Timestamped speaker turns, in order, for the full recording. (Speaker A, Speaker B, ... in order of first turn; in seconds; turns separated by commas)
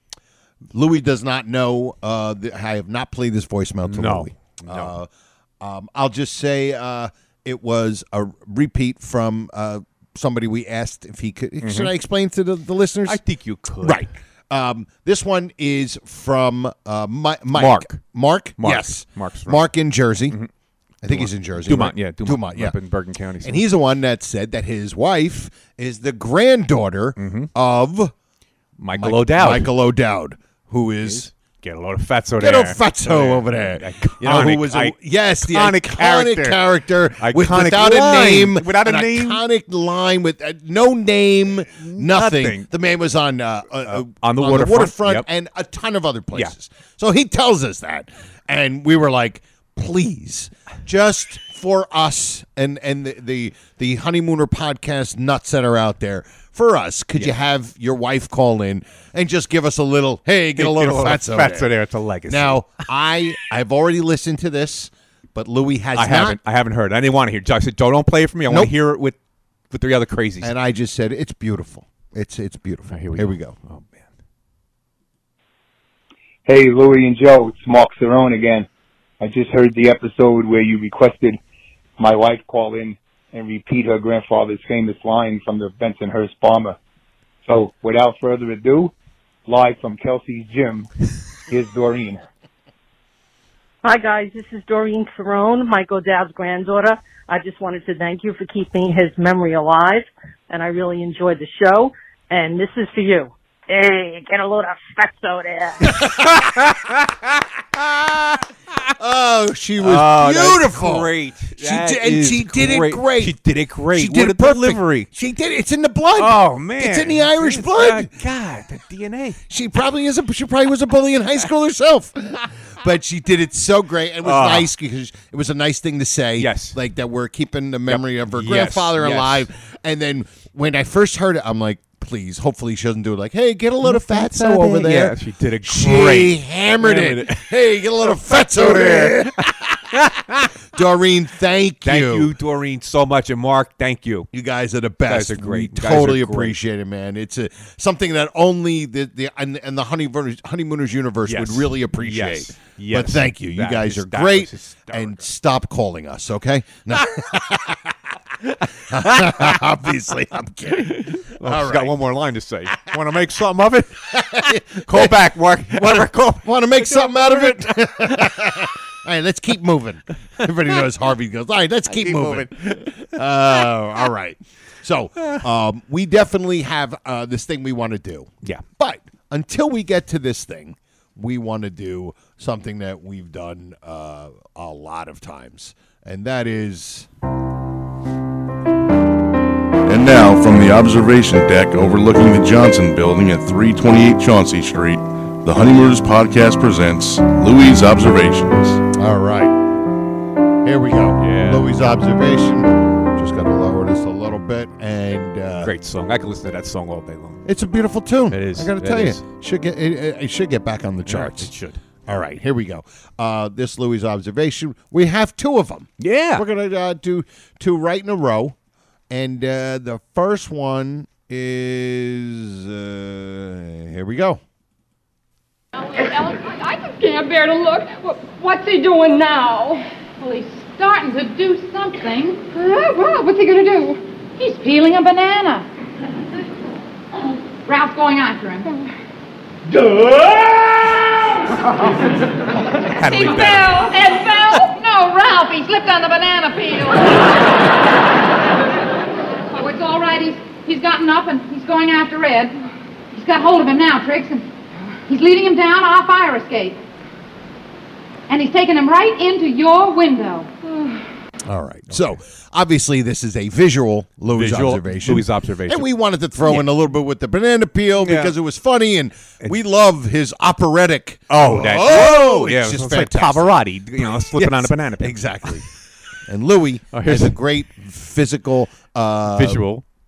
Speaker A: 0.7-5.1, Speaker B: 3.8-4.9, Speaker A: 5.6-13.2, Speaker B: 11.6-11.9, Speaker B: 13.1-14.0, Speaker A: 13.8-20.4, Speaker B: 17.5-18.0, Speaker B: 18.6-19.7, Speaker A: 21.0-22.8, Speaker B: 21.1-23.6, Speaker A: 23.4-28.1, Speaker B: 27.2-27.5, Speaker B: 28.8-29.7, Speaker A: 29.0-31.3, Speaker B: 31.0-36.6, Speaker A: 32.4-61.7, Speaker B: 37.2-39.4, Speaker B: 41.8-42.7, Speaker B: 43.9-45.3, Speaker B: 60.5-62.9, Speaker A: 62.3-66.4, Speaker B: 66.0-69.2, Speaker B: 69.7-70.5, Speaker A: 70.4-73.5, Speaker B: 72.9-74.0, Speaker C: 76.4-78.7, Speaker C: 79.2-81.4, Speaker C: 82.0-86.8, Speaker C: 87.5-88.9, Speaker C: 89.5-90.9, Speaker C: 91.5-92.3, Speaker D: 93.8-106.0, Speaker B: 106.0-107.2, Speaker A: 109.0-113.3, Speaker B: 109.8-115.1, Speaker A: 113.9-118.1, Speaker B: 116.2-119.4, Speaker A: 119.5-140.0, Speaker B: 124.2-124.7, Speaker B: 126.4-126.8, Speaker B: 127.9-129.5, Speaker B: 133.8-137.5, Speaker B: 138.0-140.5, Speaker A: 140.7-142.3, Speaker B: 141.8-144.3, Speaker A: 144.3-157.9, Speaker B: 145.1-146.6, Speaker B: 151.3-155.2, Speaker B: 158.9-159.6, Speaker A: 158.9-161.9, Speaker B: 160.7-168.6, Speaker A: 164.1-165.2, Speaker A: 165.7-187.1, Speaker B: 171.9-173.6, Speaker E: 189.8-198.8, Speaker A: 198.9-199.5, Speaker A: 200.6-205.7, Speaker B: 201.2-201.7, Speaker B: 205.6-207.4, Speaker A: 207.4-211.5, Speaker B: 208.3-209.2, Speaker B: 211.1-211.8, Speaker A: 212.1-218.5, Speaker B: 216.0-216.4, Speaker A: 219.1-224.4, Speaker F: 225.8-235.7, Speaker F: 237.7-238.7, Speaker B: 242.8-243.8, Speaker F: 242.9-247.6, Speaker F: 249.6-252.6, Speaker F: 253.1-254.5, Speaker F: 255.1-256.8, Speaker F: 258.3-260.5, Speaker A: 261.4-275.6, Speaker B: 264.3-265.9, Speaker B: 268.0-268.3, Speaker B: 271.3-275.6, Speaker A: 276.2-279.6, Speaker B: 276.9-277.4, Speaker B: 279.3-279.8